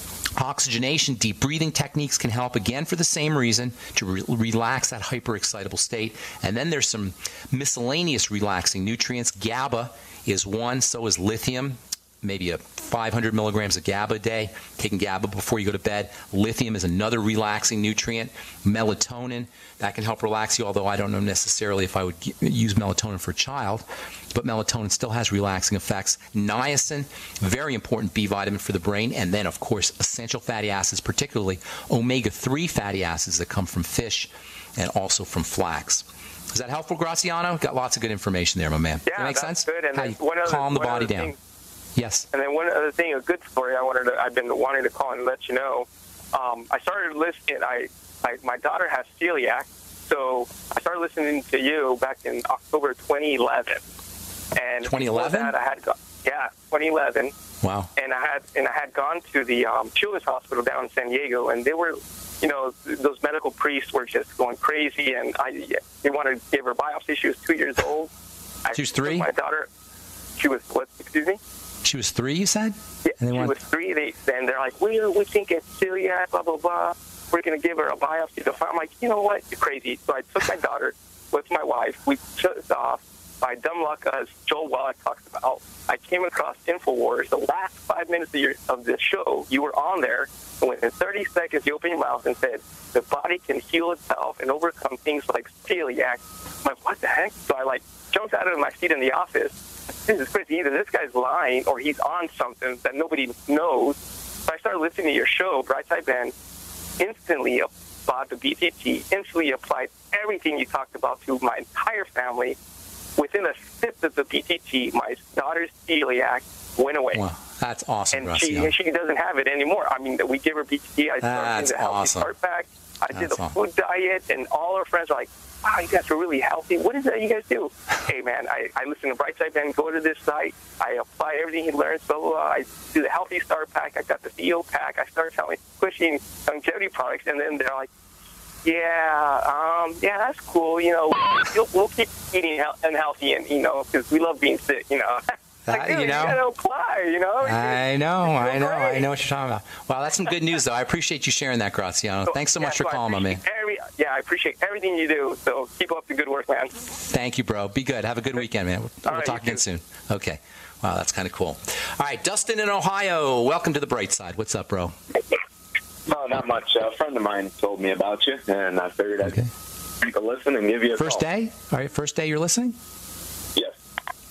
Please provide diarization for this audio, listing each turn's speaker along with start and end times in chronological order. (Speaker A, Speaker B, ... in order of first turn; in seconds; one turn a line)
Speaker A: 0.4-41.3
Speaker B: 39.1-41.4
Speaker A: 42.0-42.3
Speaker B: 42.3-53.8
Speaker B: 54.5-57.3
Speaker A: 54.8-55.5
Speaker A: 57.6-57.9
Speaker B: 58.0-68.1
Speaker B: 68.7-69.7
Speaker A: 68.7-69.3
Speaker B: 70.4-71.4
Speaker A: 71.8-73.5
Speaker B: 73.0-106.3
Speaker B: 107.0-112.6
Speaker B: 113.2-117.2
Speaker A: 117.1-118.7
Speaker B: 118.1-137.9
Speaker A: 121.2-122.3
Speaker A: 123.1-123.5
Speaker B: 138.6-149.1
Speaker A: 145.7-146.4
Speaker A: 147.4-153.4
Speaker B: 152.3-156.8
Speaker A: 157.1-164.9
Speaker B: 159.1-159.6
Speaker C: 166.1-169.4
Speaker A: 169.2-169.5
Speaker C: 170.0-171.2
Speaker A: 171.0-172.8